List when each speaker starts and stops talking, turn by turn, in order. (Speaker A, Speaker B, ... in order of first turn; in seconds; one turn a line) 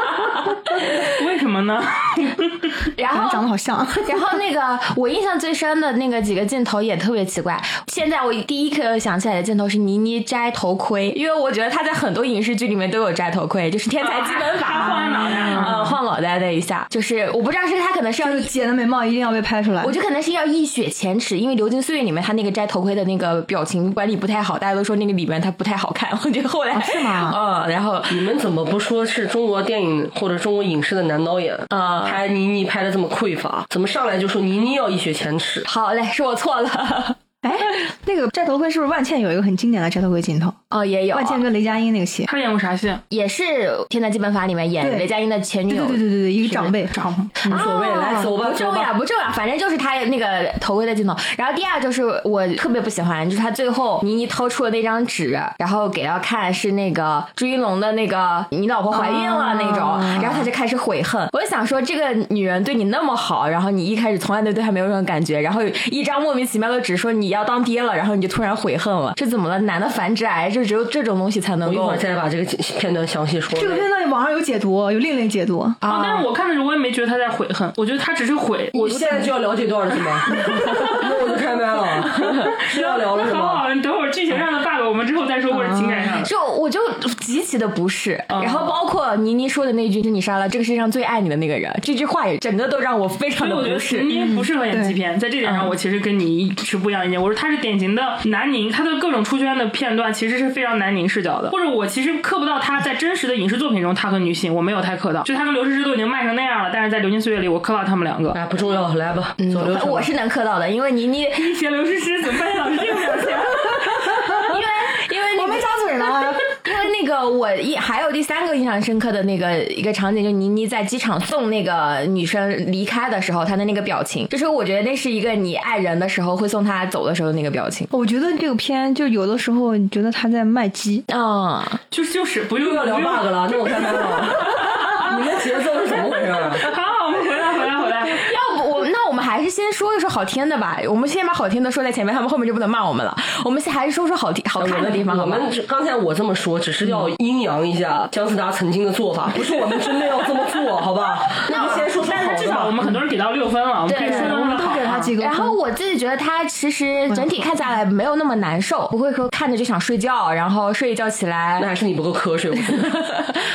Speaker A: 0.7-2.8
Speaker B: 3.0-3.5
Speaker C: 3.1-4.4
Speaker B: 4.0-18.5
Speaker A: 14.0-15.9
Speaker C: 14.9-15.9
Speaker C: 18.2-19.9
Speaker B: 19.8-28.3
Speaker C: 26.7-27.4
Speaker D: 28.1-35.7
Speaker B: 31.7-32.2
Speaker B: 35.7-37.2
Speaker C: 37.4-40.6
Speaker B: 40.7-41.4
Speaker C: 41.1-42.3
Speaker A: 42.2-43.0
Speaker B: 43.1-46.7
Speaker C: 44.8-45.1
Speaker C: 45.7-48.3
Speaker A: 47.0-47.3
Speaker D: 47.4-48.9
Speaker B: 47.5-72.0
Speaker C: 58.9-60.4
Speaker D: 71.6-73.8
Speaker C: 73.5-75.8
Speaker B: 75.8-76.3
Speaker A: 75.9-79.3
Speaker D: 78.8-83.6
Speaker C: 80.5-80.8
Speaker A: 82.2-86.3
Speaker C: 85.5-86.1
Speaker B: 86.2-94.2
Speaker A: 88.3-88.7
Speaker A: 93.4-108.3
Speaker C: 94.2-95.0
Speaker D: 108.3-110.1
Speaker B: 109.4-111.6
Speaker A: 111.3-114.5
Speaker B: 114.4-127.9
Speaker C: 115.4-116.4
Speaker C: 127.9-131.0
Speaker B: 131.1-131.8
Speaker A: 131.9-135.0
Speaker D: 132.6-136.7
Speaker A: 136.5-138.3
Speaker B: 138.1-145.5
Speaker D: 144.6-152.8
Speaker A: 151.4-155.1
Speaker B: 151.5-151.8
Speaker B: 153.9-154.4
Speaker C: 154.0-155.6
Speaker B: 155.1-161.7
Speaker C: 157.1-157.4
Speaker D: 161.6-163.1
Speaker B: 162.6-163.4